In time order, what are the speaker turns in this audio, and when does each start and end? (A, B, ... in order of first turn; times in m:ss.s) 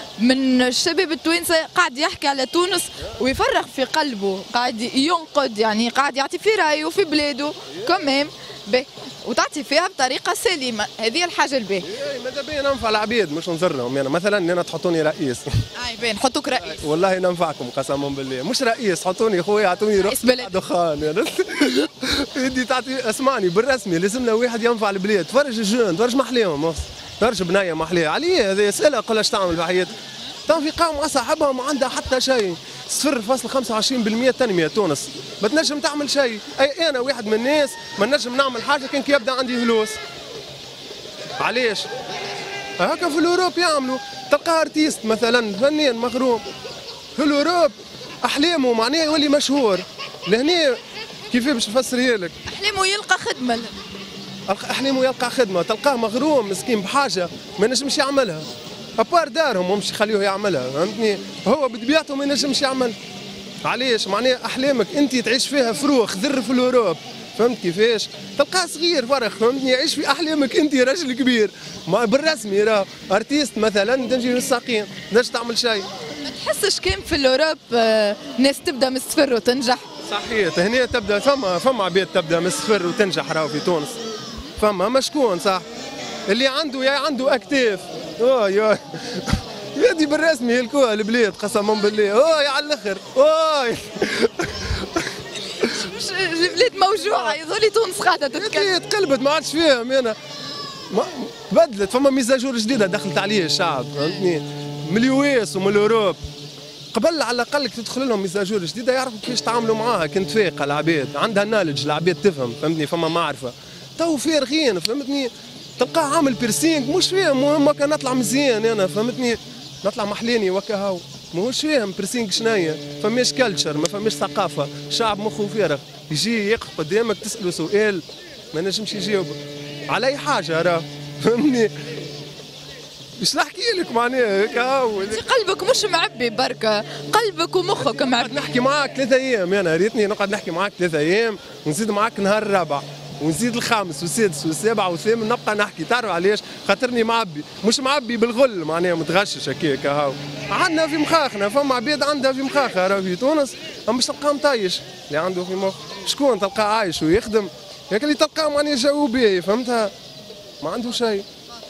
0:00.2-0:11.9 A
0:07.7-0:08.0 B
0:11.8-0:15.5 B
0:15.8-0:16.8 A
0:16.6-0:29.9 B
0:20.0-0:20.5 A
0:30.4-0:40.0 B
0:41.4-0:41.9 B
0:42.8-0:46.4 B
0:47.2-0:52.3 B
0:52.4-0:53.8 A
0:54.5-0:58.4 B
0:59.0-1:03.0 B
1:03.6-1:15.9 B
1:16.2-1:19.8 A
1:20.1-1:24.0 B
1:24.6-1:25.6 B
1:26.3-1:35.2 B
1:35.4-1:38.8 A
1:37.0-1:37.4 B
1:38.3-1:40.2 B
1:40.9-1:46.2 B
1:46.9-2:11.7 B
2:13.2-2:15.2 B
2:15.0-2:18.5 A
2:17.8-2:39.9 B
2:40.6-2:41.2 B